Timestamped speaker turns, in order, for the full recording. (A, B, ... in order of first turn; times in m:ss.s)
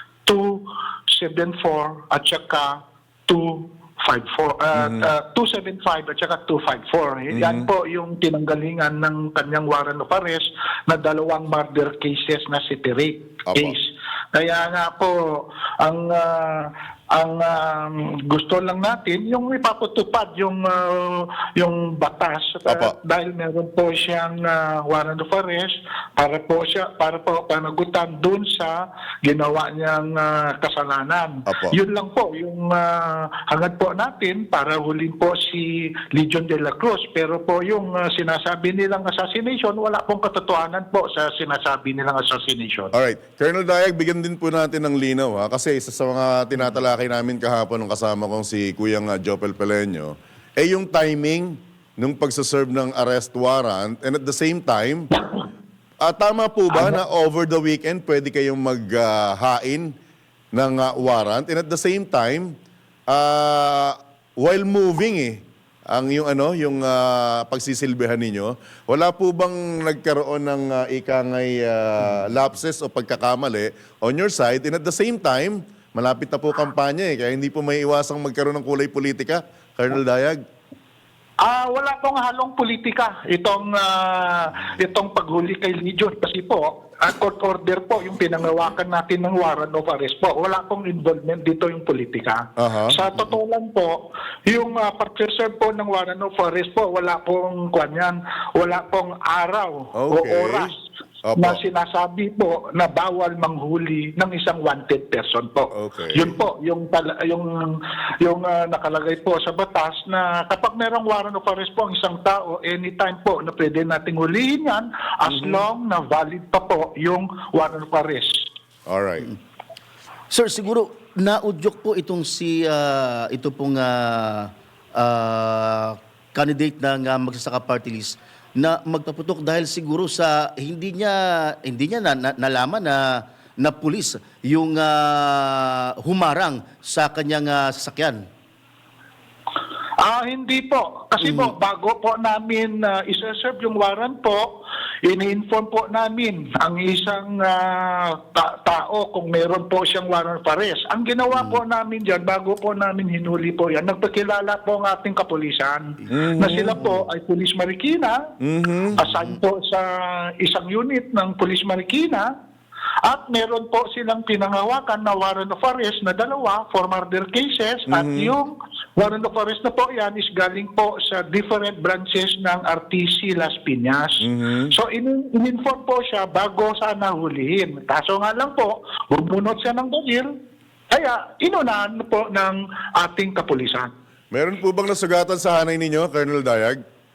0:00.2-0:42.9 A
0:04.8-0:05.1 B
0:07.3-0:07.7 B
0:13.5-0:13.8 B
0:22.7-0:22.9 B
0:31.5-0:31.8 B
0:42.9-0:55.1 B
0:56.0-0:59.9 B
1:00.5-1:02.5 B
1:03.1-1:20.4 B
1:21.4-1:40.8 A
1:32.6-1:33.0 B
1:39.9-1:40.7 B
1:41.2-1:41.6 B
1:41.4-1:58.4 A
1:45.7-1:46.4 B
1:55.2-1:55.6 B
1:58.9-1:59.3 B
2:00.3-2:18.2 C
2:20.0-2:38.2 A
2:21.2-2:21.5 C
2:31.3-2:31.6 C
2:36.1-2:36.8 B
2:36.8-2:37.1 C
2:38.4-2:39.0 B
2:39.0-2:39.4 C
2:39.0-2:42.3 A
2:43.0-3:00.3 A
2:47.9-2:48.3 B
2:54.2-2:54.8 B
3:00.9-3:03.9 A
3:04.3-3:06.8 B